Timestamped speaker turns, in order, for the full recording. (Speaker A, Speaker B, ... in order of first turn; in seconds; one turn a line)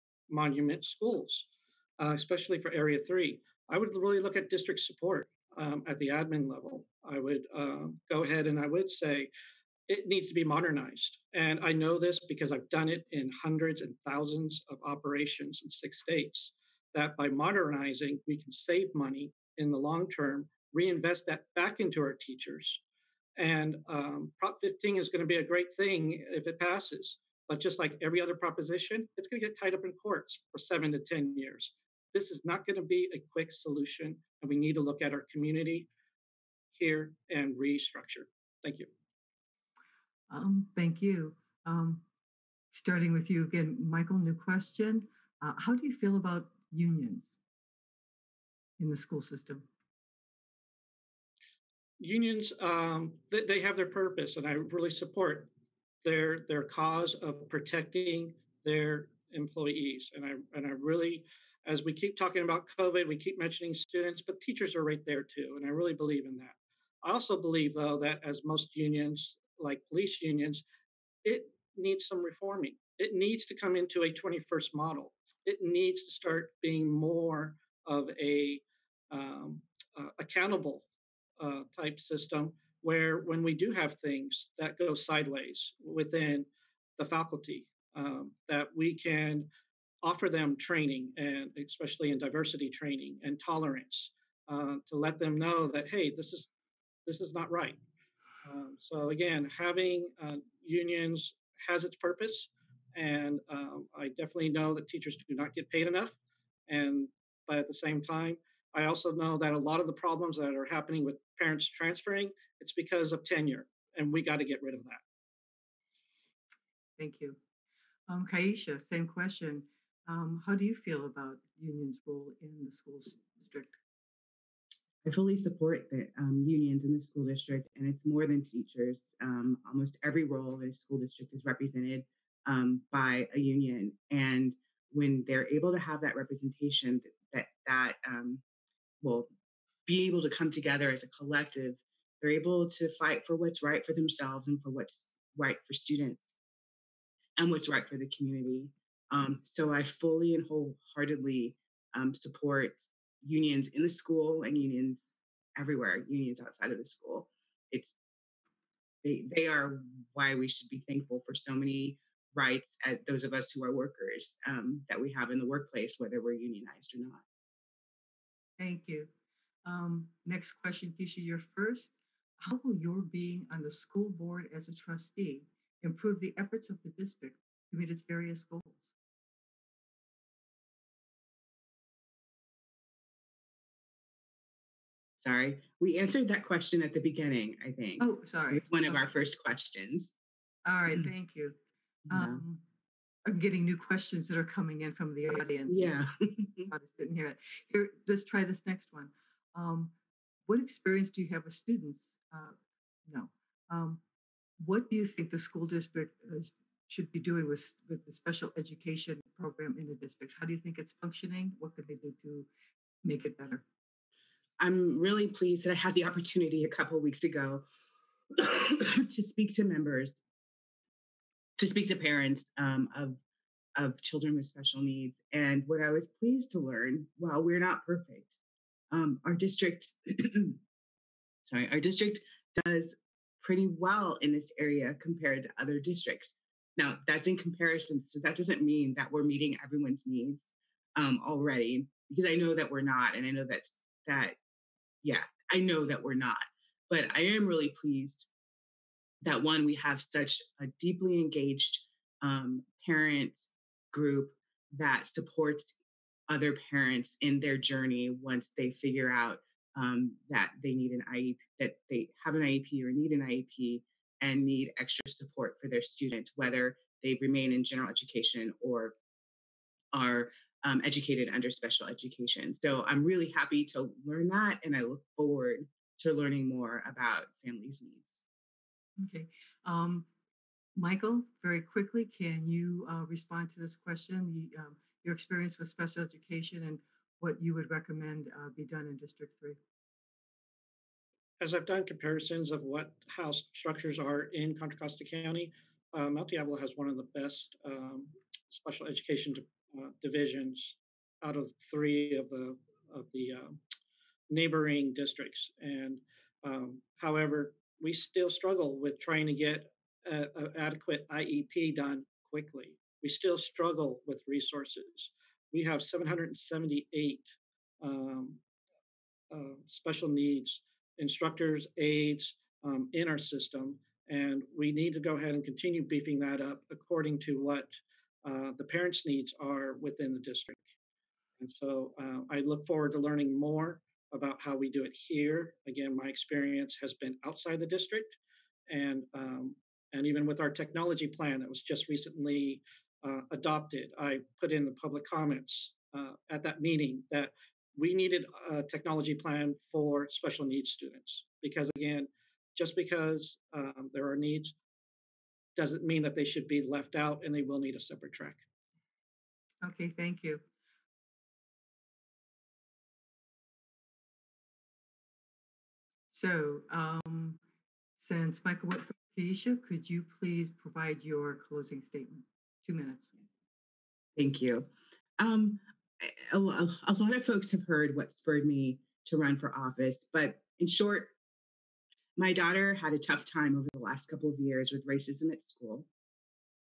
Speaker A: 0.3-1.5
Speaker A: 2.0-9.3
Speaker A: 9.9-22.8
Speaker A: 23.4-35.9
Speaker A: 36.7-38.9
Speaker B: 40.3-42.0
Speaker B: 42.7-47.4
Speaker B: 48.8-49.6
Speaker A: 52.0-55.5
Speaker A: 56.0-70.6
Speaker A: 71.2-80.8
Speaker A: 81.4-89.5
Speaker A: 90.0-96.5
Speaker A: 97.0-97.8
Speaker A: 98.4-106.2
Speaker A: 106.7-115.0
Speaker B: 117.0-117.4
Speaker B: 118.1-123.8
Speaker C: 125.0-138.4
Speaker C: 139.0-139.3
Speaker C: 139.8-146.3
Speaker C: 147.4-157.9
Speaker C: 159.0-167.2
Speaker B: 168.6-169.1
Speaker B: 169.6-178.9
Speaker C: 185.2-190.1
Speaker B: 188.0-189.0
Speaker B: 190.6-191.6
Speaker C: 192.1-192.4
Speaker B: 192.1-192.6
Speaker B: 193.2-196.0
Speaker C: 195.7-196.7
Speaker B: 196.7-199.9
Speaker B: 200.5-202.6
Speaker B: 203.1-204.0
Speaker B: 204.6-212.5
Speaker B: 213.0-213.6
Speaker C: 214.6-217.7
Speaker C: 218.3-220.2
Speaker C: 221.6-223.2
Speaker C: 223.8-228.3
Speaker C: 228.9-230.6
Speaker C: 231.5-244.4
Speaker C: 245.0-248.3
Speaker C: 249.2-255.7
Speaker C: 256.3-268.9
Speaker C: 269.9-278.2
Speaker B: 279.0-280.1
Speaker B: 280.7-289.6
Speaker A: 291.4-303.6
Speaker A: 304.3-318.4
Speaker A: 319.3-330.6
Speaker A: 331.4-338.2
Speaker A: 338.7-354.5
Speaker A: 355.6-358.4
Speaker B: 359.6-360.4
Speaker B: 366.1-367.4
Speaker B: 368.0-373.1
Speaker C: 374.1-381.1
Speaker C: 382.2-385.9